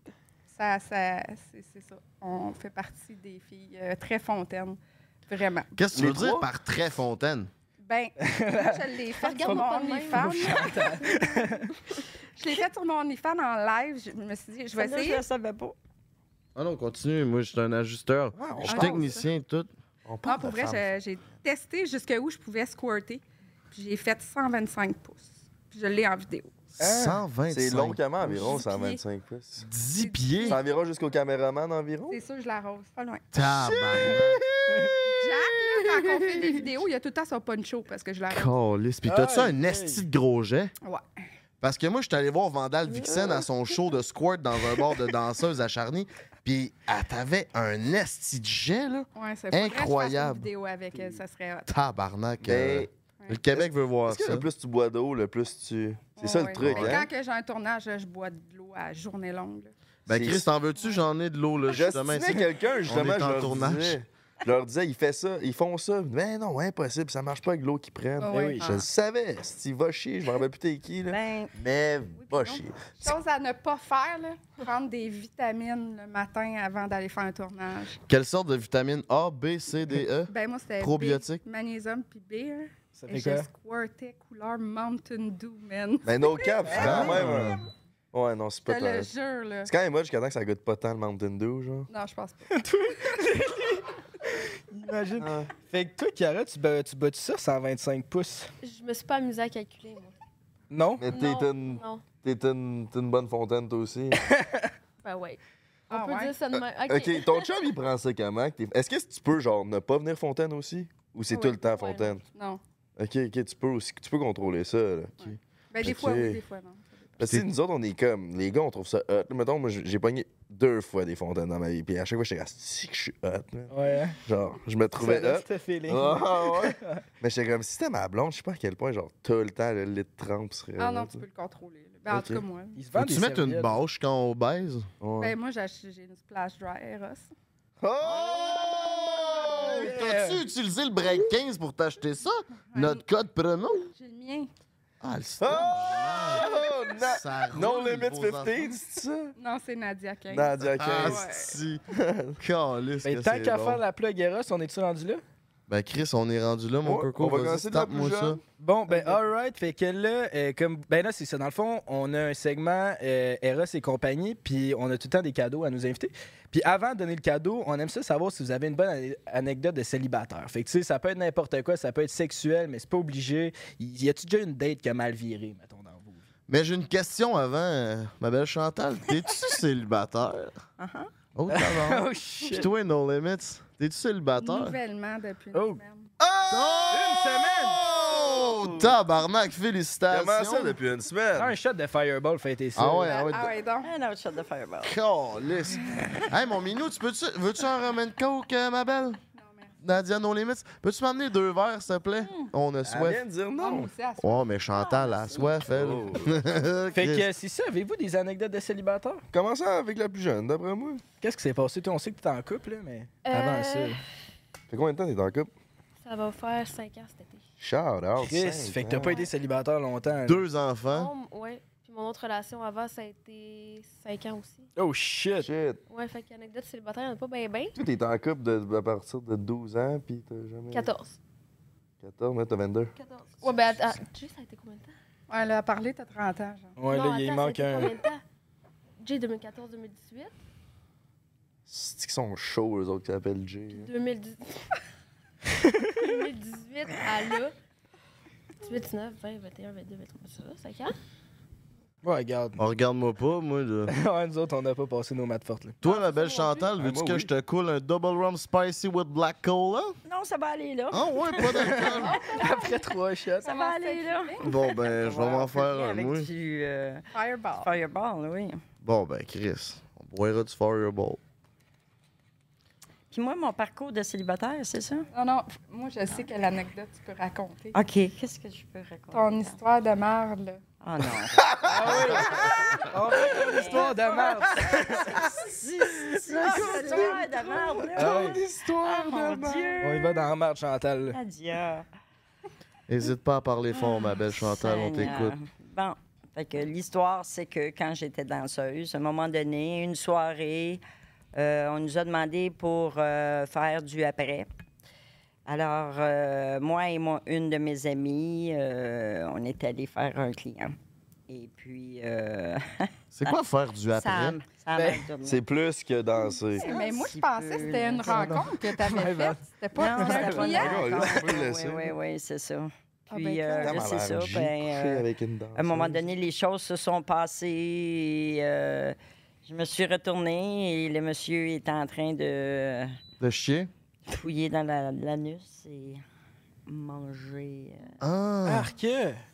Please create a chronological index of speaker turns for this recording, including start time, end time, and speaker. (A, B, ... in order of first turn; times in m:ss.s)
0:00.5-0:05.8 A
0:05.8-0:07.5 B
0:06.0-0:06.5 C
0:07.8-0:11.3 A
0:08.2-0:11.8 D
0:09.2-0:10.8 E
0:12.4-0:15.2 A
0:14.7-0:15.8 F
0:16.6-0:19.7 B
0:18.4-0:19.0 C
0:18.6-0:19.3 A
0:20.0-0:21.0 C
0:20.2-0:26.5 A
0:26.8-0:28.5 B
0:26.8-0:27.2 D
0:27.5-0:29.7 C
0:28.2-0:29.0 A
0:29.6-0:30.6 B
0:29.9-0:30.6 A
0:30.5-0:32.2 C
0:32.1-0:33.3 A
0:33.3-0:34.4 B
0:33.6-0:36.6 C
0:34.7-0:35.0 D
0:35.2-0:38.6 A
0:38.3-0:40.7 B
0:39.1-0:40.1 D
0:41.6-0:50.5 B
0:43.1-0:43.4 C
0:49.2-0:51.7 A
0:51.7-0:54.5 B
0:52.4-0:52.9 C
0:53.5-0:57.1 C
0:56.2-0:59.7 A
0:56.6-0:57.0 B
1:00.1-1:04.0 B
1:00.1-1:00.5 C
1:01.7-1:13.0 C
1:08.2-1:08.8 A
1:08.3-1:08.7 D
1:11.1-1:11.5 F
1:12.2-1:18.0 A
1:18.1-1:21.4 B
1:20.3-1:27.0 A
1:23.0-1:23.5 D
1:26.0-1:27.6 C
1:26.7-1:27.6 D
1:26.7-1:27.6 B
1:28.1-1:29.1 C
1:28.6-1:29.7 A
1:29.7-1:31.9 C
1:31.9-1:32.5 A
1:32.5-1:38.5 D
1:35.2-1:35.5 C
1:38.6-1:40.2 E
1:40.7-1:41.1 D
1:41.0-1:44.2 C
1:41.1-1:42.1 E
1:44.2-1:44.7 D
1:45.0-1:47.7 E
1:45.9-1:46.4 A
1:46.5-1:52.2 C
1:51.3-1:51.6 A
1:51.5-1:52.2 E
1:52.3-1:52.6 A
1:53.0-1:56.4 C
1:55.2-1:57.4 A
1:57.2-2:11.2 C
2:03.7-2:04.2 D
2:04.9-2:07.0 D
2:10.8-2:12.8 A
2:12.1-2:12.4 C
2:12.8-2:13.8 D
2:13.0-2:14.9 B
2:15.0-2:15.4 C
2:15.2-2:17.3 A
2:17.8-2:19.8 C
2:18.0-2:23.9 B
2:19.6-2:20.4 D
2:22.7-2:23.1 A
2:23.9-2:24.5 A
2:25.0-2:28.6 B
2:25.4-2:29.3 C
2:29.4-2:31.6 A
2:30.3-2:31.3 C
2:30.8-2:31.8 B
2:31.9-2:32.4 C
2:32.4-2:33.8 B
2:33.0-2:35.2 D
2:35.7-2:38.4 B
2:36.8-2:38.4 C
2:38.6-2:56.2 D
2:56.5-3:00.5 B
3:00.8-3:01.1 F
3:01.4-3:04.8 B
3:01.5-3:02.7 D
3:04.4-3:06.1 A
3:05.5-3:05.8 D
3:06.2-3:09.0 C
3:06.5-3:07.2 B
3:06.9-3:07.8 D
3:07.9-3:10.8 B
3:10.1-3:11.6 C
3:11.4-3:13.2 D
3:12.8-3:13.5 B
3:13.0-3:13.9 A
3:13.8-3:15.0 F
3:14.8-3:19.2 B
3:19.3-3:19.8 A
3:19.8-3:23.2 B
3:22.8-3:23.9 C
3:23.5-3:24.5 A
3:24.2-3:27.3 B
3:24.7-3:25.6 F
3:25.7-3:26.3 C
3:26.9-3:29.2 D
3:29.3-3:31.0 C
3:31.2-3:34.0 D
3:33.2-3:34.0 E
3:34.7-3:35.5 C
3:36.0-3:37.4 E
3:37.6-3:39.2 C
3:38.2-3:40.4 D
3:39.0-3:39.3 E
3:40.3-3:41.1 B
3:40.9-3:44.7 E
3:44.8-3:45.5 D
3:45.4-3:45.8 C
3:45.9-3:47.8 E
3:47.8-3:50.9 C
3:50.7-3:51.2 E
3:52.0-3:52.9 C
3:53.0-3:54.9 E
3:55.3-3:56.8 A
3:56.8-3:58.0 D
3:56.9-3:58.2 E
3:59.0-4:00.4 E
4:01.7-4:03.9 C
4:03.7-4:04.6 E
4:06.0-4:07.5 E
4:08.6-4:10.9 E
4:12.0-4:12.6 D
4:12.6-4:13.9 B
4:13.9-4:15.8 D
4:15.8-4:20.0 B
4:15.8-4:16.7 E
4:16.8-4:17.3 C
4:20.0-4:21.9 F
4:20.9-4:22.2 B
4:21.6-4:23.5 D
4:21.9-4:22.8 A
4:23.4-4:24.6 A
4:23.4-4:28.6 F
4:24.4-4:26.3 B
4:27.1-4:27.7 A
4:28.8-4:31.2 B
4:33.1-4:35.1 F
4:35.1-4:37.8 A
4:37.7-4:39.6 F
4:39.1-4:40.6 A
4:40.8-4:50.3 F
4:41.3-4:43.6 C
4:41.6-4:45.3 D
4:45.9-4:49.8 C
4:46.5-4:47.1 A
4:48.0-4:48.4 D
4:49.8-4:51.2 D
4:51.1-4:51.9 F
4:52.9-4:55.4 B
4:54.4-5:00.8 F
5:01.4-5:04.5 F
5:05.5-5:10.8 F
5:11.3-5:13.4 F
5:13.1-5:14.4 B
5:13.9-5:15.4 F
5:14.8-5:15.1 D
5:15.2-5:16.7 C
5:16.5-5:21.2 A
5:16.6-5:18.6 F
5:18.1-5:20.6 D
5:19.7-5:33.0 F
5:20.6-5:21.9 C
5:23.1-5:23.9 A
5:23.6-5:26.1 C
5:33.2-5:33.7 B
5:34.1-5:36.0 F
5:36.7-5:38.0 F
5:38.0-5:38.7 B
5:38.5-5:39.2 D